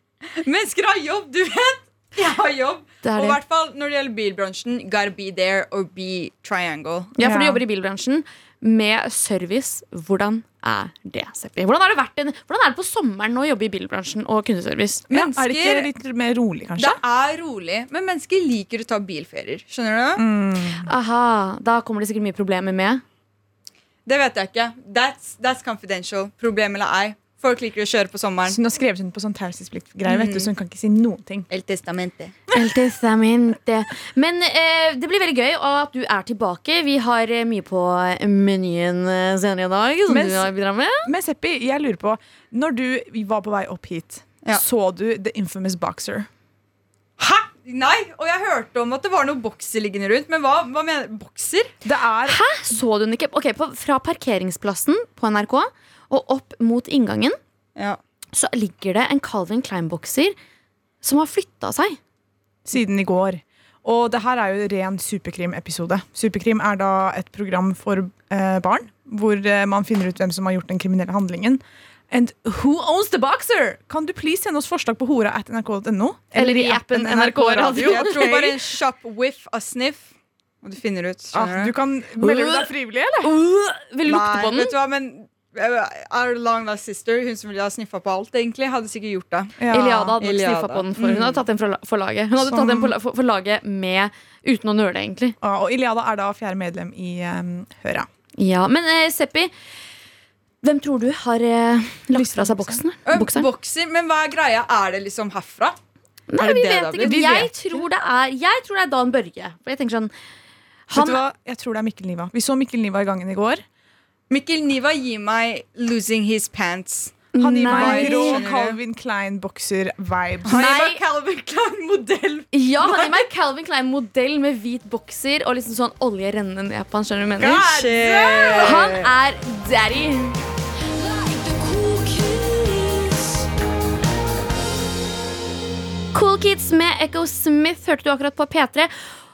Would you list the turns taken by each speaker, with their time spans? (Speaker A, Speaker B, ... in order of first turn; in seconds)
Speaker A: 0.4-7.1, 15.1-15.9, 16.8-20.2, 24.1-28.6, 30.1-30.5, 31.5-32.4, 47.2-51.7, 77.8-81.7, 84.0-89.6, 90.2-91.4, 103.1-105.8, 106.4-107.4, 114.3-118.8, 120.5-123.2, 127.6-129.1
Speaker B: 3.0-3.4, 7.2-15.1, 20.9-23.0, 32.5-41.1, 52.3-57.4, 58.3-60.4, 61.0-62.0, 76.3-78.4, 82.2-84.8, 89.7-95.4, 98.4-99.5, 100.6-103.5, 106.3-110.1, 110.9-111.2, 117.3-118.4, 120.5-121.0, 122.5-127.8, 128.6-130.4, 136.1-138.9
Speaker C: 7.2-7.6, 15.1-17.0, 20.2-20.9, 28.5-31.5, 40.1-40.5, 41.0-46.3, 51.8-52.4, 62.7-78.5, 81.3-83.3, 89.6-90.2, 92.4-92.9, 95.4-98.1, 102.1-102.8, 107.0-107.8, 110.9-113.6, 117.4-120.7, 127.4-128.8